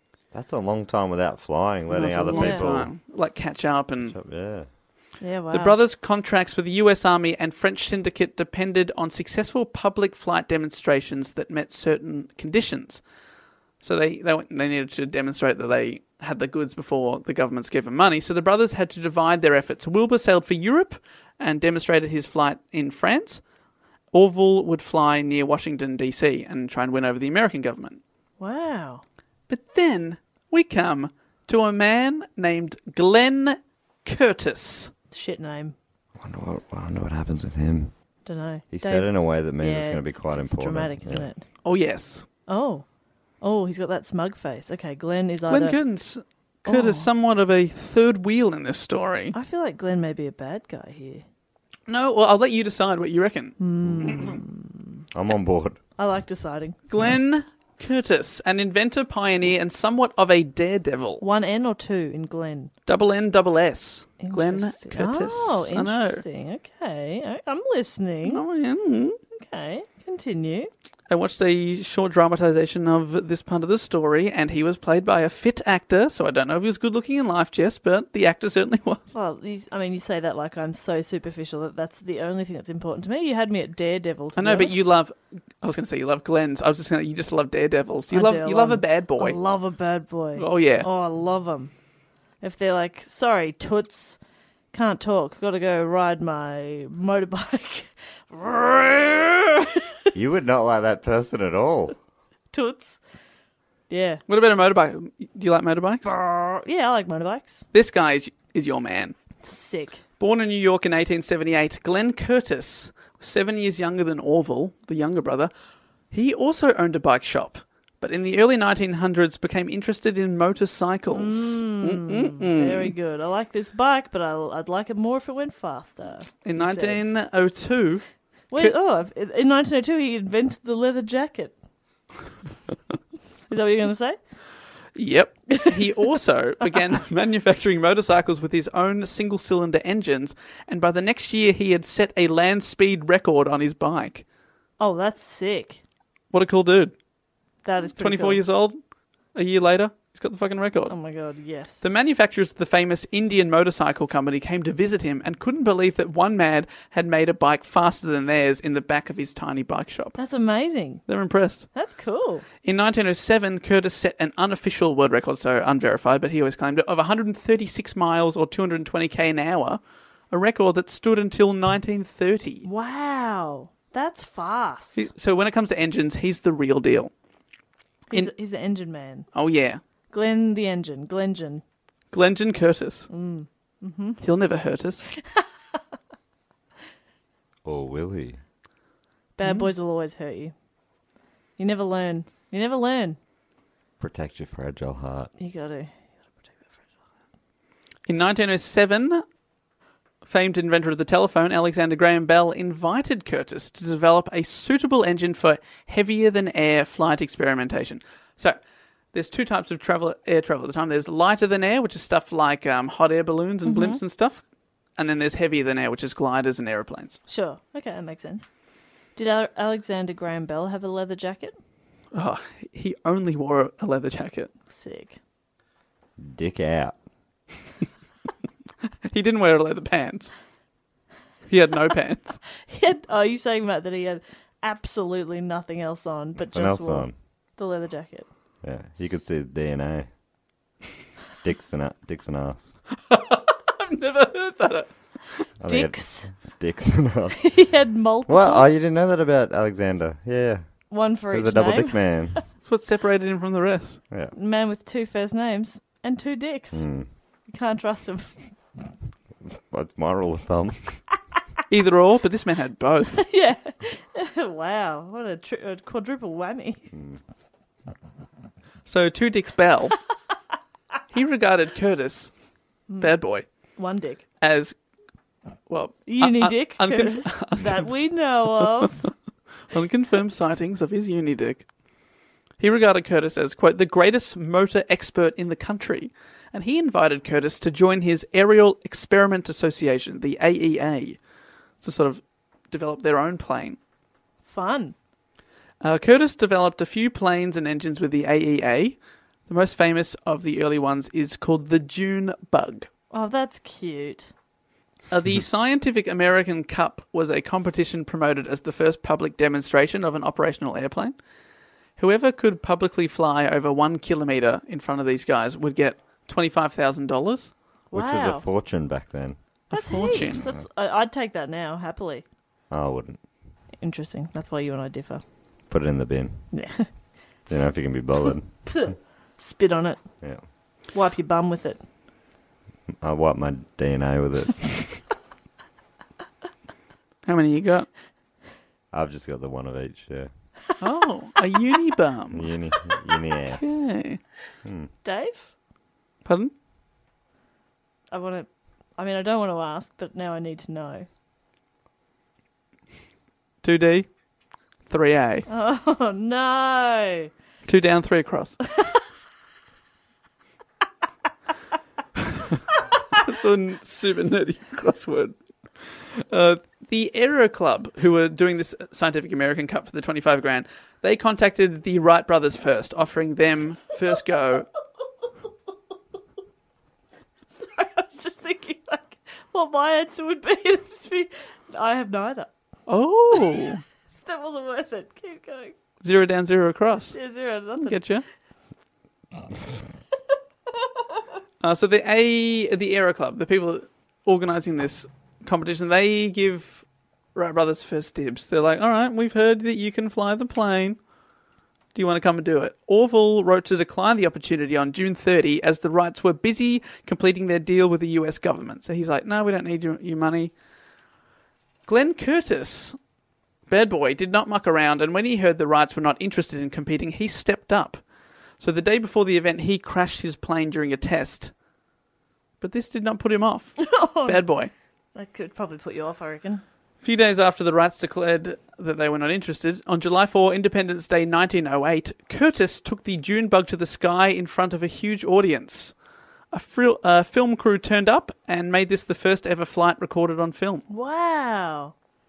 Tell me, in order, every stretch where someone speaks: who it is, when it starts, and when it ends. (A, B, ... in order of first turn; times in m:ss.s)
0:00.3-0:02.9 A
0:01.9-0:04.2 B
0:02.3-0:02.7 C
0:04.0-0:04.7 A
0:05.2-0:05.8 C
0:05.5-0:13.0 B
0:13.8-0:23.4 B
0:24.1-0:28.0 B
0:28.4-0:29.0 C
0:29.5-0:34.9 B
0:35.1-0:35.8 C
0:36.2-0:37.9 A
0:38.3-0:41.4 C
0:38.7-0:41.3 A
0:41.6-0:42.3 B
0:42.5-0:42.8 C
0:43.4-0:45.8 C
0:45.5-0:49.4 B
0:46.7-0:47.1 C
0:49.3-0:51.2 C
0:51.9-0:54.4 B
0:53.6-0:55.0 C
0:53.8-0:54.2 A
0:55.1-0:55.8 A
0:56.0-0:56.8 C
0:56.9-1:01.2 B
1:01.2-1:02.7 C
1:02.9-1:06.2 B
1:04.2-1:08.4 C
1:08.2-1:09.2 B
1:09.4-1:10.7 C
1:11.1-1:19.1 B
1:19.1-1:24.9 C
1:24.4-1:29.4 B
1:28.1-1:31.7 C
1:30.4-1:30.9 B
1:32.4-1:34.2 C
1:34.7-1:40.0 C
1:40.1-1:42.0 A
1:42.5-1:43.0 C
1:43.9-1:44.2 C
1:44.3-1:46.1 B
1:46.0-1:47.6 C
1:47.7-1:49.2 B
1:49.4-1:50.0 C
1:50.2-1:55.5 B
1:56.1-2:02.9 B
2:01.1-2:07.1 C
2:06.4-2:08.0 B
2:08.5-2:11.6 C
2:13.5-2:14.2 C
2:15.0-2:24.2 B
2:24.8-2:25.8 C
2:26.3-2:26.9 B
2:27.6-2:28.4 C
2:28.0-2:28.8 B
2:29.3-2:31.0 B
2:30.9-2:31.9 C
2:31.8-2:40.2 B
2:40.2-2:41.0 C
2:41.1-2:41.7 B
2:41.7-2:42.4 C
2:42.6-2:49.8 B
2:50.3-2:52.7 B
2:52.6-2:55.1 C
2:55.0-2:57.1 B
2:58.1-2:59.3 C
2:59.3-2:59.8 B
3:00.1-3:01.6 C
3:02.1-3:03.1 B
3:03.1-3:04.2 C
3:04.2-3:05.1 B
3:05.1-3:05.4 C
3:07.6-3:08.4 A
3:09.4-3:10.5 C
3:09.4-3:09.7 B
3:11.6-3:13.2 C
3:14.0-3:15.3 A
3:15.4-3:16.8 C
3:18.1-3:19.2 B
3:20.2-3:28.6 B
3:29.1-3:34.4 B
3:33.6-3:34.0 C
3:35.0-3:37.2 B
3:37.3-3:38.5 C
3:39.2-3:41.6 C
3:42.1-3:44.5 B
3:44.7-3:45.2 C
3:46.2-3:47.0 A
3:49.1-3:50.3 B
3:51.5-3:52.4 B
3:52.6-3:58.3 C
3:56.5-3:57.1 A
3:58.6-4:00.1 A
4:01.4-4:02.7 A
4:03.1-4:04.9 B
4:05.6-4:07.4 A
4:05.7-4:06.3 C
4:07.4-4:08.7 C
4:08.3-4:10.7 A
4:10.9-4:12.4 C
4:11.3-4:12.4 A
4:12.6-4:14.0 B
4:14.3-4:16.9 C
4:16.7-4:17.1 A
4:17.5-4:18.4 C
4:19.4-4:21.0 A
4:21.7-4:23.2 B
4:23.2-4:26.9 C
4:26.9-4:27.2 A
4:28.8-4:30.0 B
4:31.1-4:32.3 B
4:32.9-4:33.2 C
4:33.0-4:33.5 B
4:33.8-4:34.2 C
4:34.4-4:34.8 B
4:35.7-4:37.9 B
4:36.1-4:39.1 C
4:38.6-4:38.9 B
4:39.7-4:41.7 B
4:42.6-4:51.2 B
4:51.8-4:53.8 B
4:54.4-4:55.0 C
4:55.8-5:02.9 B
5:03.1-5:04.3 C
5:05.1-5:11.2 B
5:12.0-5:17.5 B
5:17.9-5:18.4 C
5:17.9-5:19.4 A
5:19.7-5:20.5 B
5:19.7-5:22.2 C
5:22.7-5:23.2 A
5:23.8-5:25.2 C
5:25.7-5:26.5 A
5:26.5-5:26.9 C
5:27.5-5:28.9 A
5:28.6-5:30.0 C
5:30.9-5:31.8 C
5:33.0-5:35.0 A
5:37.2-5:37.9 B
5:38.9-5:40.3 A
5:40.8-5:42.5 B
5:42.3-5:43.8 A
5:43.6-5:44.2 B
5:44.6-5:44.9 A
5:45.0-5:45.5 C
5:46.2-5:46.5 B
5:48.1-5:51.1 C
5:53.6-5:54.1 B
5:54.9-5:55.5 B
5:55.5-5:57.3 C
5:57.7-5:58.6 B
5:58.7-5:59.0 C
6:03.2-6:14.7 B
6:17.6-6:22.5 C
6:22.9-6:23.8 B
6:23.6-6:25.8 C
6:26.0-6:27.2 B
6:27.1-6:28.0 C
6:27.8-6:28.2 B
6:31.6-6:41.0 B
6:41.9-6:50.5 B
6:51.9-6:53.0 B
6:53.7-6:58.0 B
6:58.6-7:01.5 B
7:02.6-7:04.7 B
7:03.8-7:04.4 C
7:05.2-7:06.6 C
7:07.0-7:16.0 B
7:16.5-7:20.8 B
7:20.9-7:21.9 C